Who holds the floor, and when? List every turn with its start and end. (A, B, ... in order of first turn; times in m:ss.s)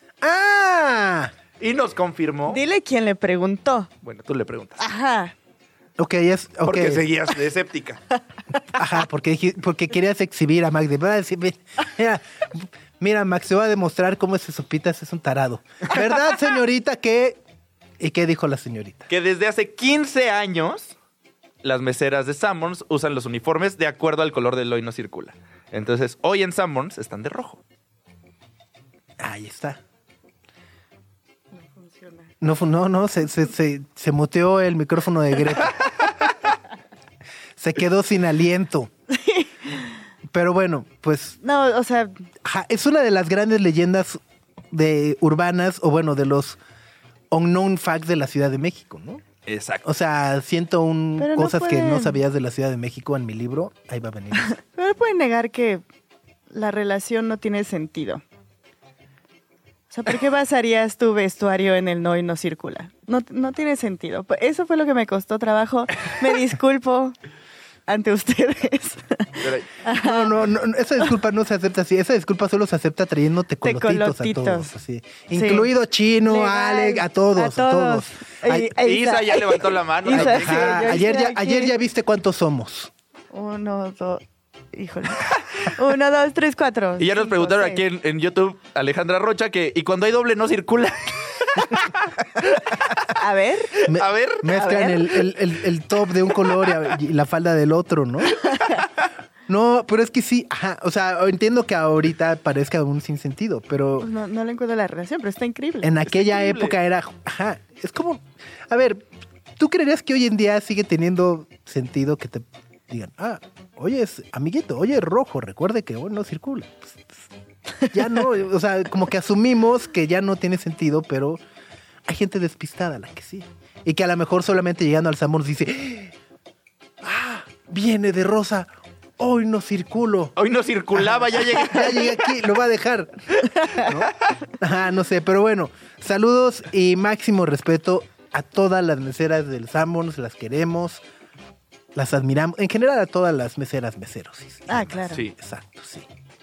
0:00.2-0:01.3 A
0:01.6-0:02.6 B
0:02.5-0:03.9 C
0:04.0-0:04.8 B
0:04.8-0:05.3 C
0:06.0-0:07.1 A
0:06.6-0:08.0 B
0:08.7-0:17.4 A
0:18.0-0:19.1 A
0:19.1-0:21.0 B
0:21.6-0:27.6 B
0:29.2-0:29.8 A
0:31.5-0:32.3 C
0:32.4-0:35.8 A
0:37.6-0:38.9 A
0:39.1-0:39.9 C
0:40.3-0:41.4 A
0:41.4-0:42.3 C
0:42.4-0:46.6 A
0:47.3-0:49.2 A
0:49.5-0:49.8 B
0:49.8-0:54.6 A
0:51.2-0:52.2 C
0:54.5-0:55.8 C
0:56.5-0:58.2 C
0:59.9-1:07.2 C
1:07.9-1:10.4 C
1:09.4-1:09.7 B
1:09.9-1:18.7 A
1:13.6-1:14.7 C
1:15.3-1:15.7 C
1:16.2-1:21.7 C
1:18.8-1:21.0 B
1:20.1-1:22.9 A
1:23.3-1:27.8 C
1:27.0-1:33.1 B
1:33.1-1:33.9 C
1:33.8-1:34.5 B
1:33.9-1:38.4 A
1:34.4-1:35.1 C
1:39.5-1:44.1 A
1:44.0-1:46.0 C
1:45.8-1:49.1 A
1:46.1-1:46.8 B
1:49.6-1:57.3 A
1:57.9-2:01.4 A
2:02.0-2:06.2 A
2:07.0-2:10.4 A
2:10.4-2:12.3 B
2:10.9-2:21.0 A
2:13.6-2:13.9 C
2:21.9-2:26.1 A
2:24.7-2:25.2 C